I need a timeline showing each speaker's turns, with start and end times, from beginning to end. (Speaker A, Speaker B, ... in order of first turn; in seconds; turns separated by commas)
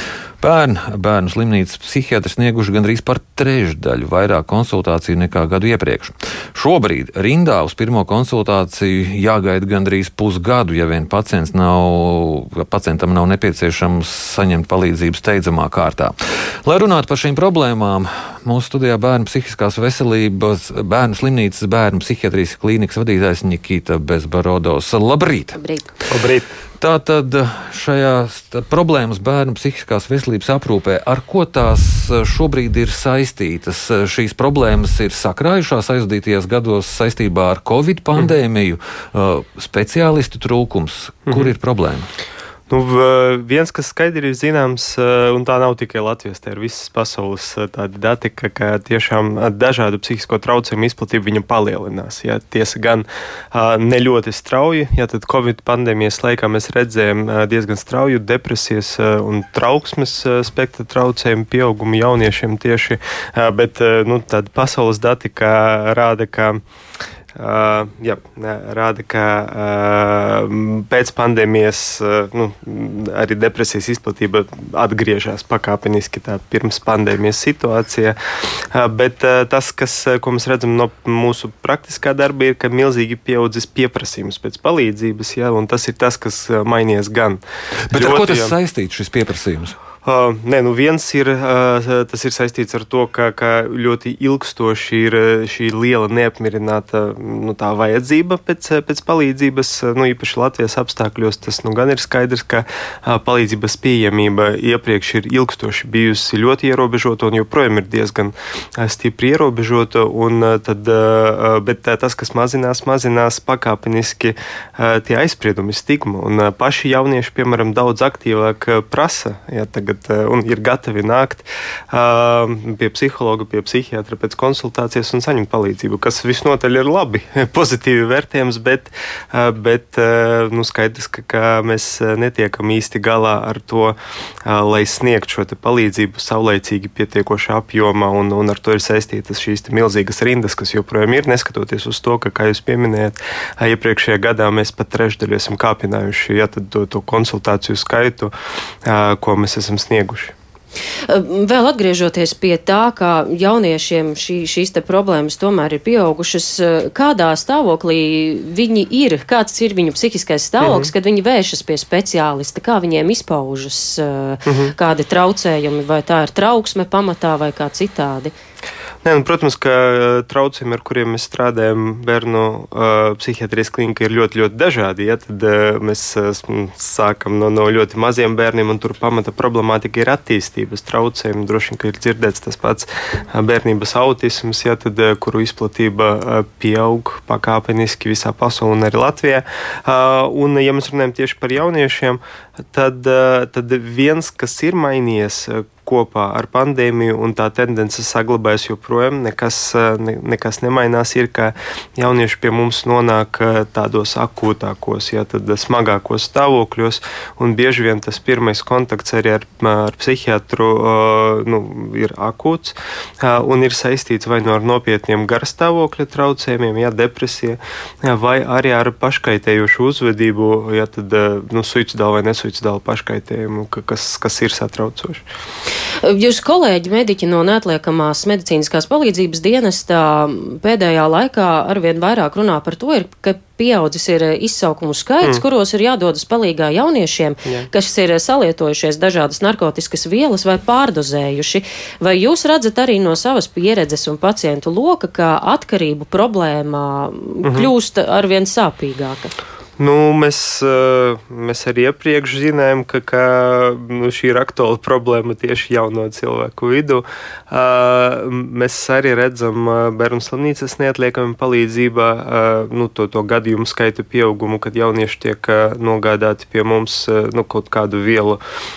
Speaker A: 0.4-16.1, Speaker A: 16.7-25.6, Speaker B: 25.6-25.9, Speaker C: 26.1-26.5, Speaker A: 26.8-42.1, Speaker C: 41.3-41.5, Speaker C: 42.7-66.6, Speaker C: 67.4-78.2, Speaker C: 78.7-88.5, Speaker A: 87.9-89.8, Speaker C: 90.0-148.3, Speaker C: 148.8-150.3, Speaker B: 151.1-168.3, Speaker C: 160.6-160.9, Speaker C: 164.5-164.7, Speaker C: 169.0-192.2, Speaker C: 192.7-225.2, Speaker B: 226.0-249.3, Speaker C: 247.4-247.7, Speaker C: 249.8-268.4